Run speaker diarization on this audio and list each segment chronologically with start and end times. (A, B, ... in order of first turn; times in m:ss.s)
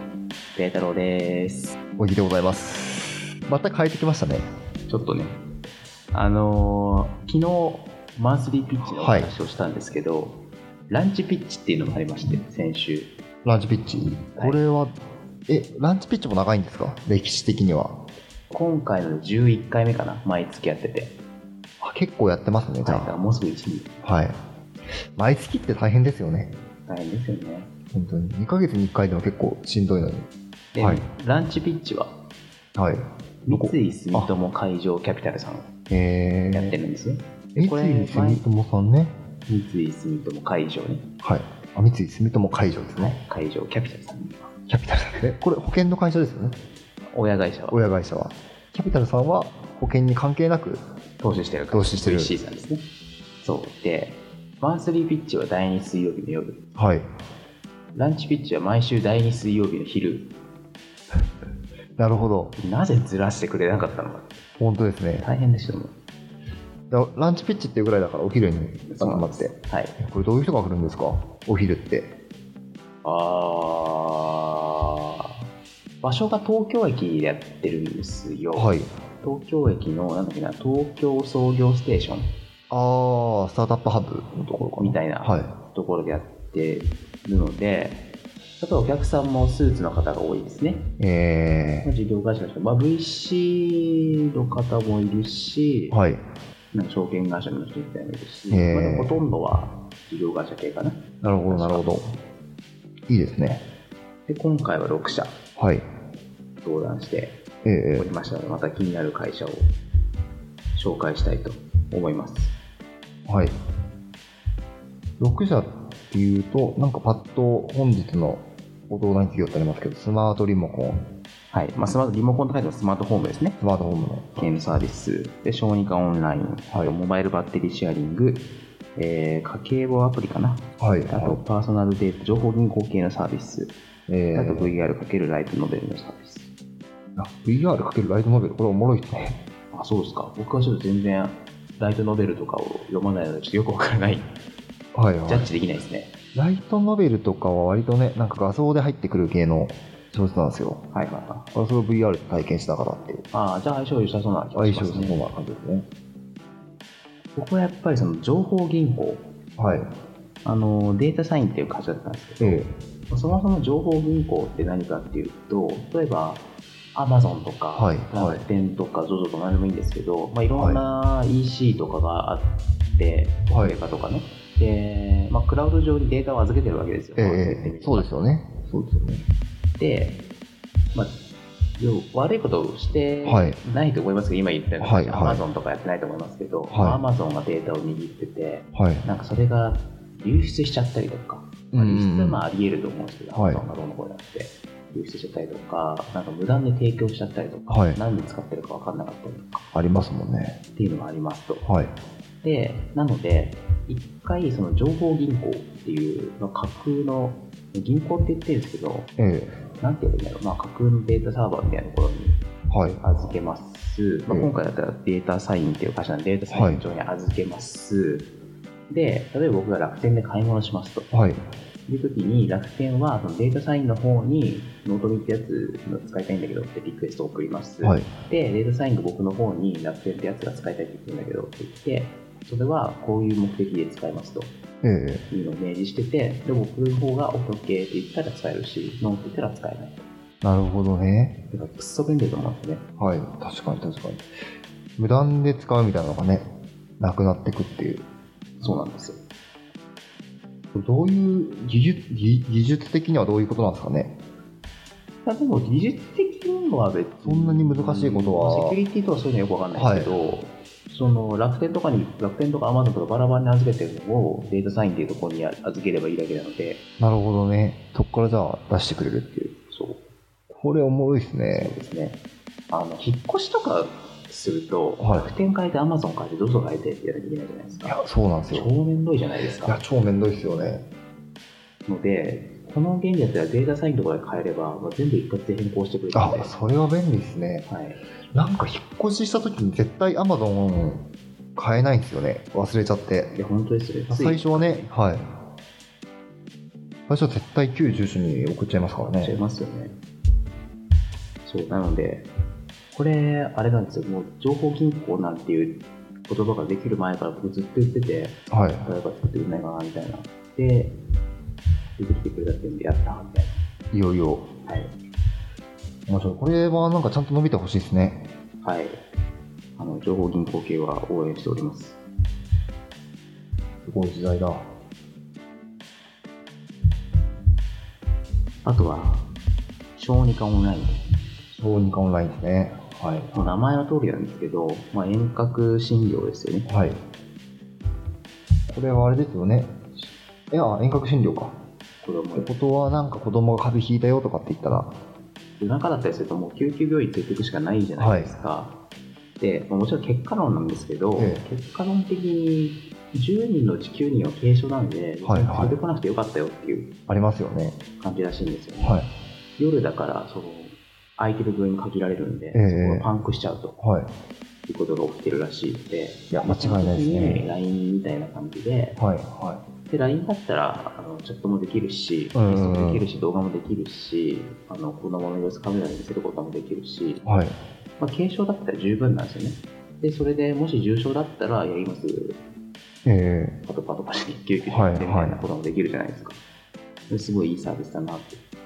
0:00.6-0:01.8 A
0:02.0-0:04.4 B
0:04.9-0:05.4 A
0:06.1-0:13.1 A
0:08.9-0:09.3 B
0:13.4-0:14.9 B
0:14.4-0:14.6 A
0:15.5-0:18.0 B
0:18.5-0:21.2 A
0:21.8-0:23.1 B
0:22.8-0:23.9 A
0:24.0-0:24.4 B
0:25.2-0:26.5 B
0:26.9-0:27.7 A
0:27.9-0:31.0 B
0:30.7-0:32.2 A
0:32.8-0:34.3 B
0:33.4-0:35.7 A
0:35.9-0:36.8 B
0:36.5-0:38.4 A
0:37.5-0:39.1 B
0:39.5-0:41.1 A
0:41.2-0:43.2 B
0:42.7-0:44.5 A
0:44.7-0:46.6 B
0:47.1-0:47.8 A
0:47.7-0:50.8 B
0:51.2-0:52.8 A
0:51.7-0:52.3 B
0:53.4-0:56.6 A
0:56.8-0:57.1 B
0:57.9-1:00.3 A
1:02.0-1:02.5 B
1:02.6-1:04.4 A
1:04.6-1:05.3 B
1:05.2-1:05.9 A
1:06.9-1:12.1 B
1:08.8-1:10.0 A
1:13.0-1:15.4 A
1:16.0-1:22.3 A
1:18.5-1:18.9 B
1:22.7-1:25.5 B
1:24.8-1:28.1 A
1:28.6-1:30.9 A
1:31.0-1:31.9 B
1:31.8-1:36.0 A
1:35.9-1:36.2 B
1:36.7-1:42.2 A
1:38.5-1:39.2 B
1:41.2-1:42.0 B
1:43.1-1:43.6 B
1:44.3-1:45.4 A
1:45.6-1:45.9 B
1:46.6-1:47.4 A
1:47.6-1:48.1 B
1:48.0-1:49.7 A
1:50.7-1:52.5 A
1:53.3-1:53.6 B
1:55.2-2:01.0 B
2:01.5-2:03.6 A
2:03.6-2:04.6 B
2:04.4-2:13.7 A
2:10.8-2:11.4 B
2:14.1-2:14.7 B
2:14.3-2:16.5 A
2:17.2-2:19.4 B
2:19.7-2:24.3 A
2:24.9-2:25.5 B
2:25.3-2:26.1 A
2:26.3-2:30.8 B
2:30.9-2:31.5 A
2:31.5-2:33.2 B
2:33.3-2:35.2 A
2:34.5-2:35.9 B
2:37.4-2:39.3 A
2:39.6-2:39.9 B
2:40.4-2:58.1 A
2:42.4-2:42.7 B
2:47.7-2:48.4 B
2:50.5-2:50.8 B
2:53.5-2:53.8 B
2:57.2-2:59.2 B
2:59.8-3:00.2 A
3:00.9-3:01.2 A
3:01.8-3:19.7 A
3:03.2-3:03.6 B
3:04.8-3:05.4 B
3:06.7-3:07.0 B
3:08.7-3:09.1 B
3:11.7-3:12.4 B
3:13.3-3:13.6 B
3:17.7-3:18.0 B
3:19.7-3:20.6 B
3:20.7-3:21.6 A
3:21.6-3:21.9 B
3:22.4-3:29.1 A
3:29.2-3:29.5 B
3:29.8-3:32.4 A
3:32.7-3:33.0 B
3:33.0-3:38.3 A
3:36.5-3:36.8 B
3:38.9-3:41.1 A
3:41.1-3:41.4 B
3:41.9-3:54.5 A
3:47.8-3:48.1 B
3:54.8-3:55.2 B
3:55.3-4:00.0 A
4:00.4-4:01.4 B
4:01.5-4:02.8 A
4:03.0-4:04.2 B
4:05.0-4:08.0 B
4:08.6-4:09.2 A
4:10.7-4:14.1 B
4:15.2-4:26.8 A
4:17.2-4:18.8 B
4:19.7-4:20.1 B
4:27.0-4:29.5 B
4:29.7-4:30.0 A
4:30.5-4:31.7 B
4:31.5-4:39.8 A
4:35.0-4:35.3 B
4:37.8-4:38.7 B
4:39.6-4:40.8 B
4:41.9-4:46.5 A
4:46.1-4:47.7 B
4:47.7-4:48.0 A
4:48.3-4:51.0 B
4:51.6-4:53.4 B
4:53.3-4:54.9 A
4:54.1-4:55.2 B
4:57.1-4:59.4 B
4:59.2-5:00.0 A
5:01.4-5:02.3 A
5:02.9-5:11.0 A
5:08.5-5:08.9 B
5:12.0-5:13.6 A
5:13.9-5:14.5 B
5:14.6-5:14.9 A
5:16.1-5:18.2 B
5:18.6-5:19.0 A
5:19.8-5:22.0 A
5:23.8-5:24.6 B
5:28.6-5:29.3 A
5:30.0-5:31.0 A
5:31.5-5:33.5 B
5:33.3-5:36.7 A
5:36.7-5:37.0 B
5:38.7-5:39.9 B
5:40.5-5:41.6 B
5:42.0-5:42.5 A
5:42.4-5:44.9 B
5:45.6-5:48.8 A
5:48.0-5:48.3 B
5:49.4-5:56.9 A
5:51.2-5:51.4 B
5:55.2-5:55.8 B
5:57.1-5:57.8 B
5:58.0-5:59.0 A
5:58.8-5:59.1 B
5:59.6-6:03.8 A
6:02.5-6:03.1 B
6:03.8-6:04.1 B
6:04.7-6:09.0 A
6:06.3-6:07.5 B
6:09.0-6:09.6 B
6:09.8-6:17.2 A
6:12.3-6:13.1 B
6:17.2-6:17.6 B
6:18.0-6:22.4 A
6:23.0-6:23.6 B
6:23.6-6:26.4 A
6:24.6-6:25.4 B
6:27.1-6:28.4 A